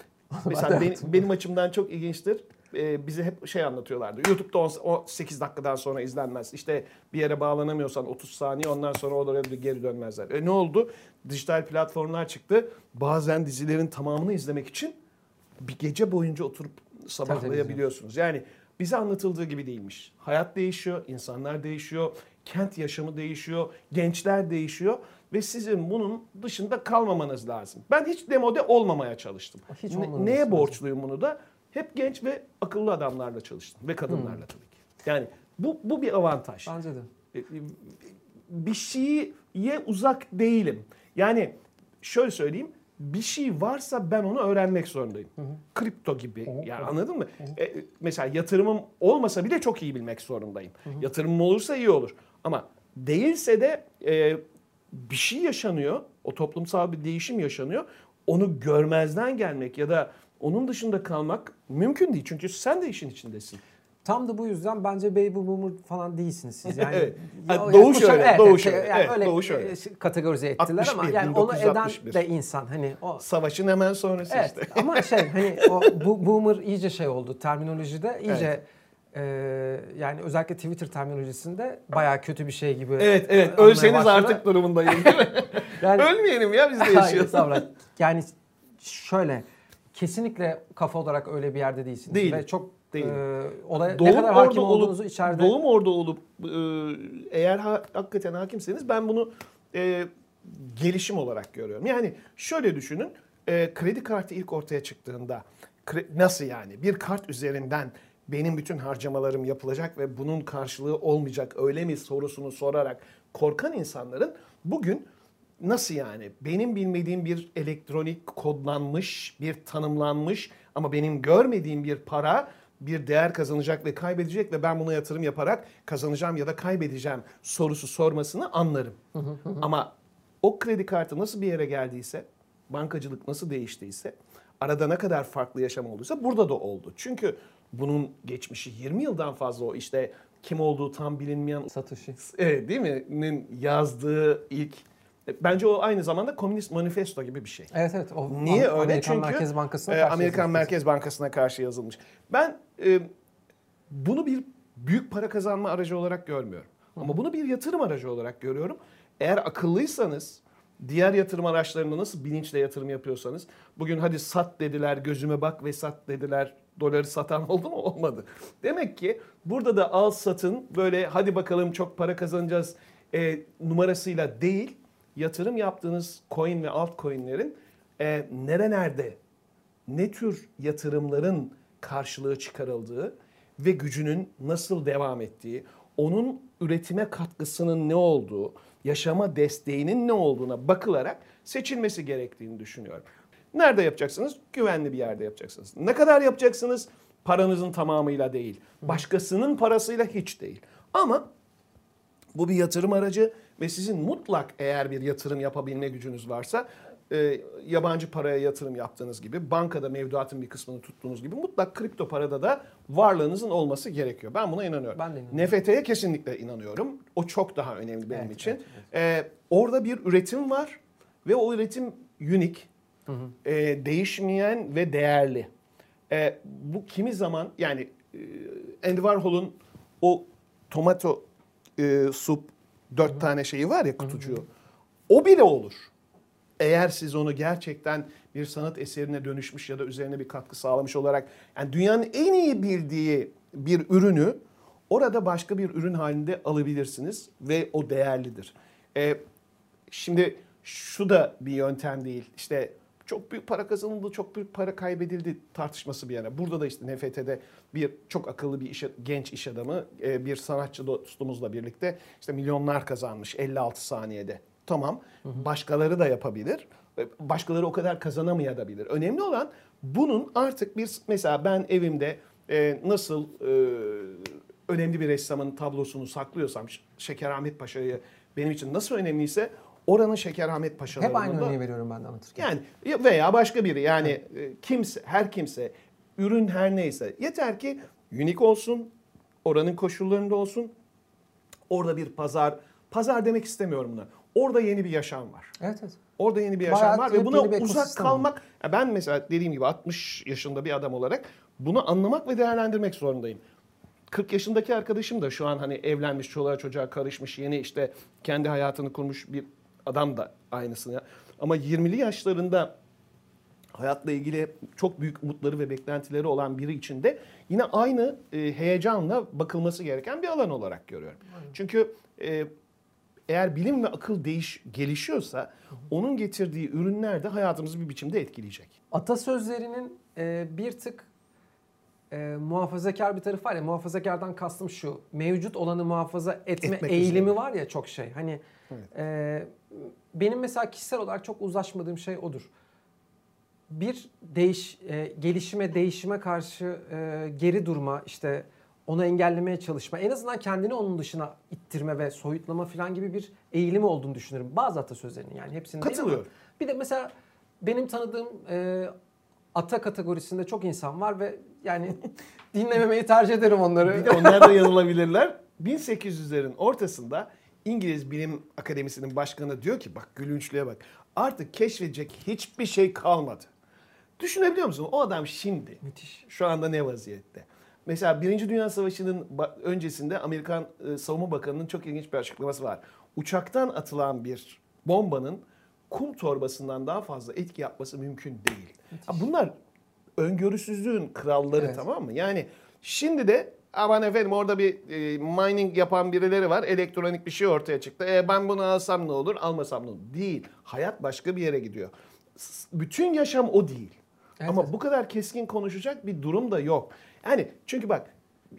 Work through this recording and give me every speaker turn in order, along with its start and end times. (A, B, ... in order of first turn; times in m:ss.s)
0:00.3-0:01.3 A
0:00.4-0:15.0 B
0:15.6-0:36.7 B
0:17.3-0:17.8 A
0:29.7-0:30.8 A
0:34.1-0:34.4 A
0:36.7-0:37.1 A
0:37.3-0:38.0 B
0:38.5-1:03.6 B
0:46.5-0:47.6 A
1:04.0-1:13.2 A
1:06.7-1:09.7 B
1:10.6-1:12.2 B
1:13.2-1:16.0 B
1:14.3-1:26.1 A
1:23.0-1:27.7 B
1:26.8-1:35.6 A
1:32.1-1:33.2 B
1:33.8-1:55.1 B
1:55.6-2:09.0 B
2:09.2-2:09.7 A
2:09.6-2:27.7 B
2:21.7-2:22.2 A
2:27.7-2:30.7 A
2:28.3-2:33.1 B
2:33.9-2:59.2 B
2:59.9-3:21.3 B
3:22.4-3:42.7 B
3:35.0-3:35.5 A
3:38.1-3:38.8 A
3:43.1-3:43.3 A
3:43.4-3:45.5 B
3:46.1-3:51.2 B
3:51.8-3:54.5 B
3:54.1-3:54.4 A
3:55.1-3:55.9 B
3:56.6-4:09.2 B
4:09.9-4:41.6 B
4:41.0-4:42.5 A
4:42.4-4:48.9 B
4:49.4-4:50.7 B
4:51.7-4:55.5 B
4:55.6-4:56.0 A
4:56.2-5:03.4 B
4:56.6-4:58.3 A
5:04.1-5:12.7 B
5:13.8-5:22.5 B
5:23.3-5:28.7 B
5:28.9-5:31.1 A
5:32.1-5:38.4 A
5:36.6-5:37.3 B
5:38.9-5:42.5 A
5:43.7-5:57.1 A
5:55.8-5:56.3 B
5:57.6-5:58.9 A
5:59.6-6:04.7 A
6:03.8-6:13.5 B
6:14.2-6:29.5 B
6:15.8-6:16.2 A
6:30.2-6:48.1 B
6:44.4-6:44.7 A